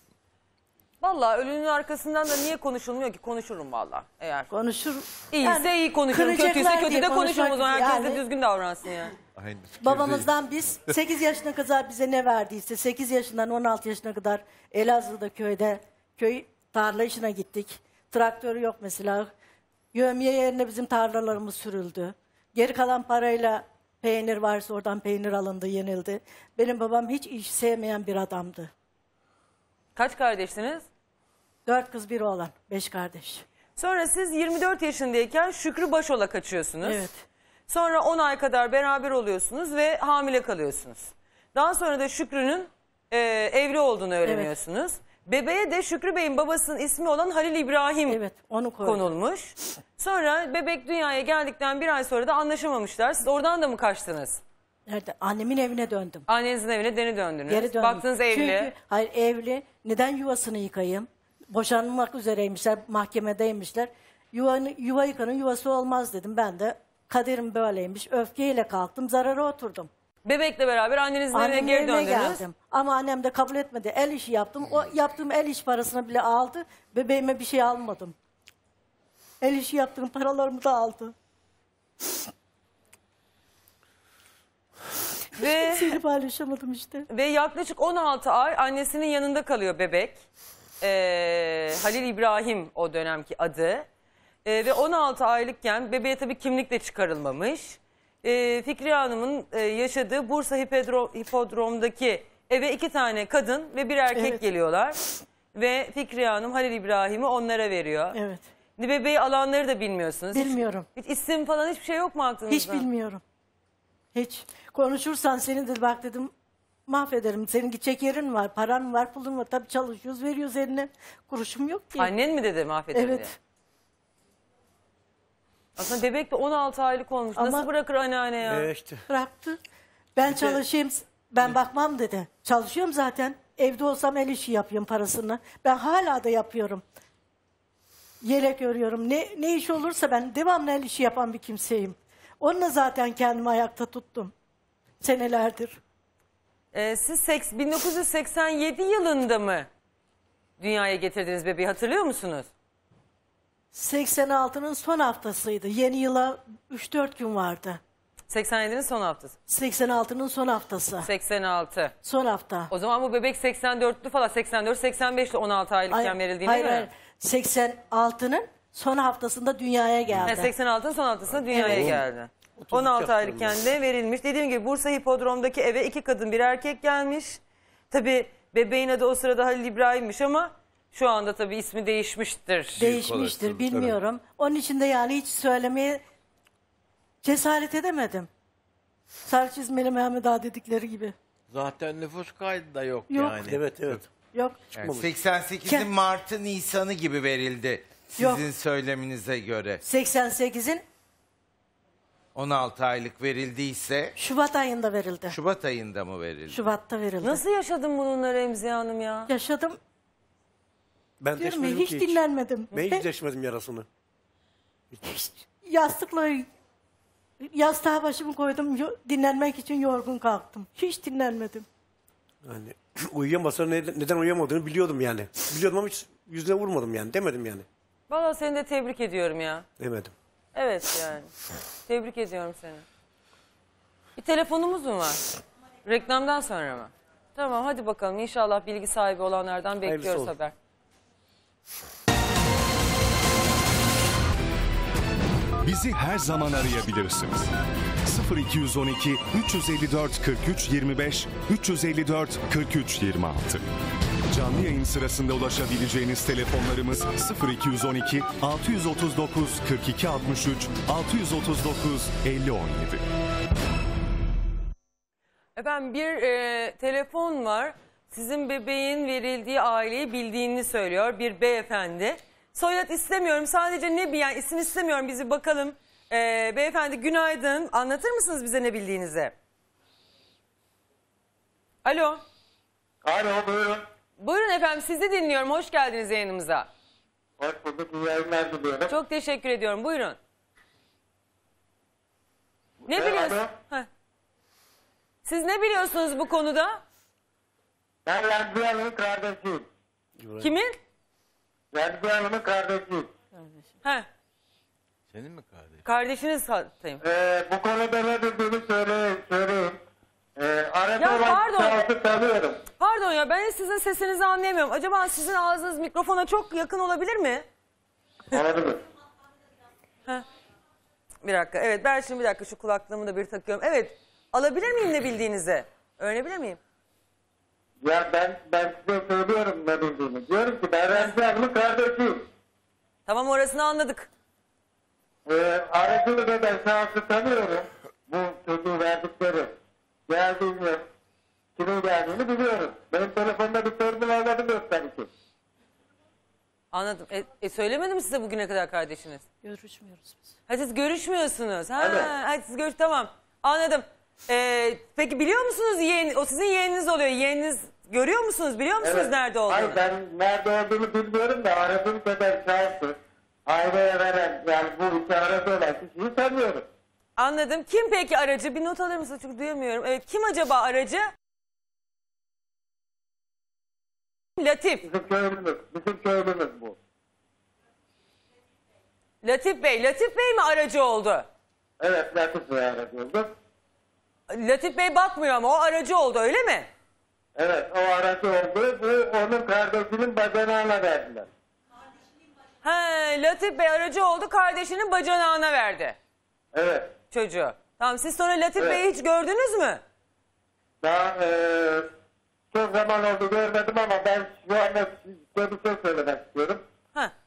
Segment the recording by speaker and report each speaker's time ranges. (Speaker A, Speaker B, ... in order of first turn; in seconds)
Speaker A: 1.0-4.5, 5.3-9.1, 29.9-30.8, 33.8-37.0, 37.7-48.2, 48.8-54.4, 56.3-58.7, 70.2-72.4, 85.4-86.0, 87.1-90.2, 90.8-93.8, 94.4-105.0, 105.5-108.2, 108.8-112.8, 122.0-123.3, 125.8-128.7, 146.7-149.7, 150.6-152.5, 158.3-159.4, 161.0-161.9, 162.7-166.9, 170.2-177.4, 177.9-182.8, 207.2-209.3, 228.1-229.6, 230.5-231.3, 231.9-232.8, 234.2-235.2, 235.8-240.5, 265.6-279.3, 281.8-282.2, 284.2-286.7, 288.9-290.2, 292.9-293.9, 295.2-296.8, 300.4-300.8, 305.8-307.0, 311.0-311.8, 312.8-317.4, 321.2-326.6, 333.1-334.1, 346.7-349.2, 350.5-359.8, 367.2-371.1, 374.4-374.8, 379.2-381.2, 384.3-386.7, 392.6-395.9, 397.1-399.8
Speaker B: 4.5-8.2, 9.8-19.3, 19.9-28.7, 31.6-33.4, 36.8-37.2, 44.2-44.5, 48.1-49.1, 54.9-56.2, 57.5-69.9, 71.3-78.1, 79.4-81.1, 85.4-87.0, 104.1-104.4, 108.1-108.4, 110.3-110.8, 112.5-113.2, 114.1-116.3, 116.9-122.1, 122.9-123.3, 127.3-127.7, 129.1-129.6, 130.2-136.8, 138.2-144.3, 145.0-145.8, 153.7-157.8, 159.5-161.1, 162.0-162.7, 165.9-170.5, 171.5-171.9, 182.8-186.0, 187.2-188.3, 189.2-191.1, 193.1-193.4, 194.3-194.7, 195.6-195.9, 198.1-198.5, 199.8-200.8, 204.2-205.3, 206.5-207.4, 209.3-209.8, 211.4-213.0, 215.1-216.5, 217.4-221.7, 303.3-303.6, 349.4-350.3
Speaker C: 9.4-10.2, 191.5-194.0, 305.1-305.8
Speaker D: 128.4-129.0, 171.6-172.0, 172.6-173.6, 193.4-194.1, 194.7-195.1, 211.2-213.8, 222.4-227.7, 229.8-230.1, 239.8-240.3, 300.2-300.5
Speaker E: 182.9-183.6, 194.9-199.8, 202.3-204.1, 205.3-206.7
Speaker F: 245.6-247.5, 248.0-253.6, 254.3-263.0
Speaker G: 283.0-283.8, 287.4-288.9, 292.8-293.5, 298.1-299.7, 301.7-303.1, 307.0-309.8, 310.4-312.6, 318.3-318.8, 327.8-332.3, 335.2-339.6, 340.1-340.9, 341.6-345.1, 351.8-352.1, 358.8-366.7, 374.8-376.8, 381.8-383.3, 387.4-391.3, 396.5-396.9, 400.8-401.9, 402.5-406.6